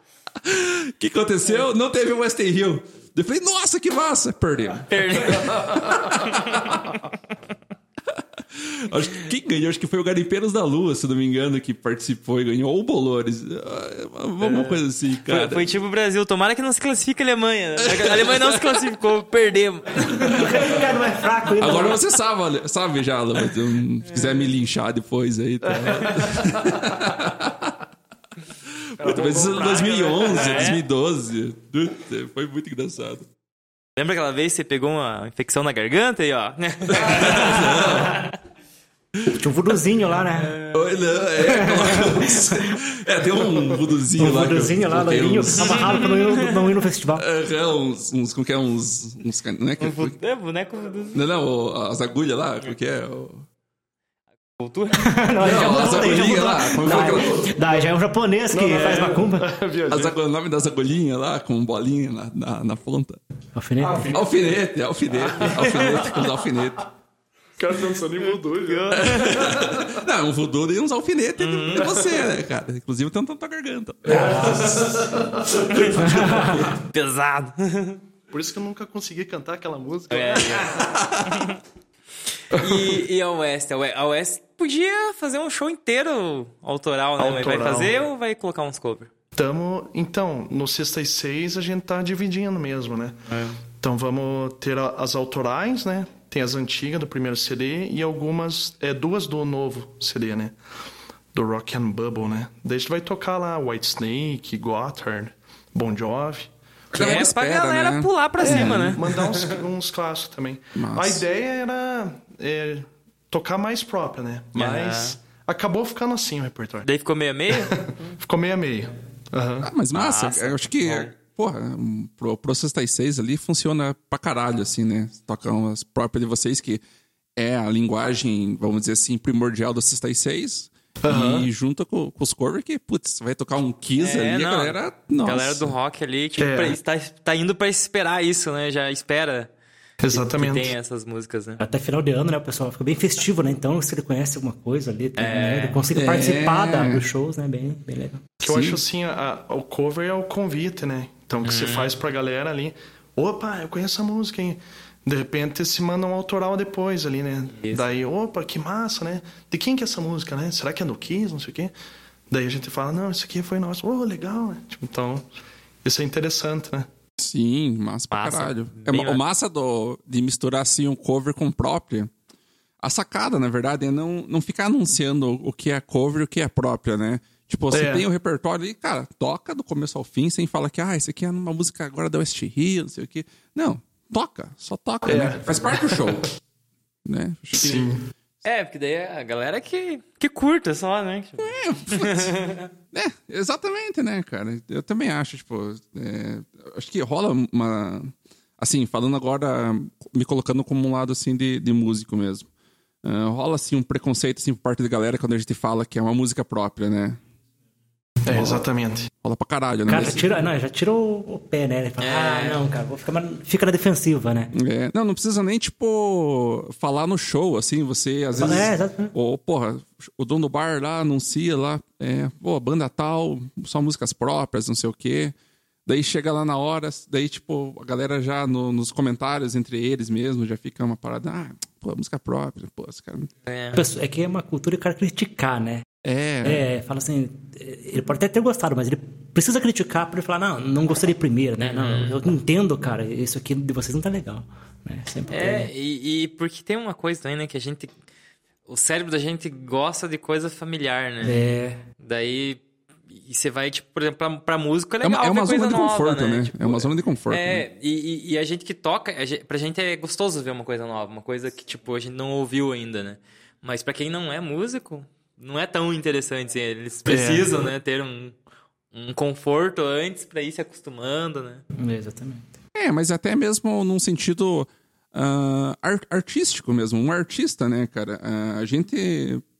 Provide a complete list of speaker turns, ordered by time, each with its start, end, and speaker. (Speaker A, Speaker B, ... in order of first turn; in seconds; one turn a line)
Speaker A: 0.4-7.0
Speaker B: 4.9-6.7
Speaker A: 8.1-15.7
Speaker B: 14.4-20.5
Speaker A: 17.8-18.8
Speaker A: 20.1-20.7
Speaker C: 20.2-22.0
Speaker A: 21.6-27.7
Speaker D: 29.0-30.7
Speaker A: 29.0-33.3
Speaker B: 29.6-30.8
Speaker B: 34.0-38.2
Speaker A: 36.9-38.2
Speaker C: 39.3-40.5
Speaker B: 40.4-40.8
Speaker A: 40.7-46.1
Speaker C: 41.4-42.8
Speaker C: 44.1-47.2
Speaker B: 45.6-46.6
Speaker A: 47.1-50.1
Speaker B: 49.8-51.2
Speaker A: 51.1-53.4
Speaker B: 54.6-56.2
Speaker C: 55.0-59.5
Speaker A: 55.4-57.5
Speaker D: 58.5-60.1
Speaker B: 58.7-59.0
Speaker A: 59.9-63.2
Speaker C: 63.5-64.1
Speaker D: 63.8-64.4
Speaker A: 64.1-66.9
Speaker B: 65.4-66.2
Speaker D: 67.6-70.0
Speaker B: 68.7-69.5
Speaker A: 68.9-76.7
Speaker B: 71.4-72.1
Speaker D: 74.1-75.6
Speaker B: 74.1-74.5
Speaker C: 74.2-74.7
Speaker B: 75.7-78.0
Speaker C: 76.0-76.6
Speaker D: 78.3-80.7
Speaker B: 80.1-81.6
Speaker A: 80.4-81.5
Speaker B: 82.5-89.1
Speaker D: 82.5-82.8
Speaker D: 87.2-88.0
Speaker D: 89.3-93.2
Speaker B: 93.3-93.5
Speaker D: 93.8-100.5
Speaker D: 101.3-106.5
Speaker A: 106.9-109.0
Speaker B: 106.9-109.5
Speaker D: 108.4-116.9
Speaker A: 110.7-111.2
Speaker B: 114.5-115.2
Speaker B: 116.8-118.0
Speaker D: 117.6-119.7
Speaker A: 119.6-126.8
Speaker B: 119.9-121.1
Speaker A: 127.3-135.7
Speaker D: 131.0-131.5
Speaker B: 134.0-139.5
Speaker D: 136.4-136.8
Speaker D: 140.0-140.7
Speaker B: 140.1-141.6
Speaker C: 141.6-148.4
Speaker B: 145.2-145.8
Speaker A: 145.9-147.0
Speaker D: 148.4-161.7
Speaker A: 148.4-148.8
Speaker B: 151.4-151.9
Speaker D: 162.3-165.2
Speaker D: 165.8-166.9
Speaker A: 167.2-172.1
Speaker B: 168.1-169.2
Speaker A: 172.8-186.4
Speaker D: 177.7-178.0
Speaker D: 185.0-186.2
Speaker A: 187.0-187.9
Speaker D: 187.6-188.1
Speaker B: 188.4-192.7
Speaker A: 191.4-202.4
Speaker A: 203.0-207.2
Speaker D: 208.2-209.1
Speaker A: 209.2-210.3
Speaker C: 209.9-214.5
Speaker B: 212.0-212.6
Speaker A: 214.5-225.3
Speaker C: 218.4-219.1
Speaker A: 225.8-233.3
Speaker B: 233.4-233.8
Speaker C: 233.7-235.8
Speaker A: 236.0-236.6
Speaker C: 236.4-245.7
Speaker B: 241.7-242.2
Speaker B: 245.3-247.9
Speaker B: 248.7-251.4
Speaker C: 251.2-251.8
Speaker B: 252.0-252.6
Speaker B: 253.1-268.4
Speaker A: 255.0-257.6
Speaker D: 267.1-267.6
Speaker B: 268.9-271.6
Speaker C: 271.7-272.5
Speaker A: 272.7-279.4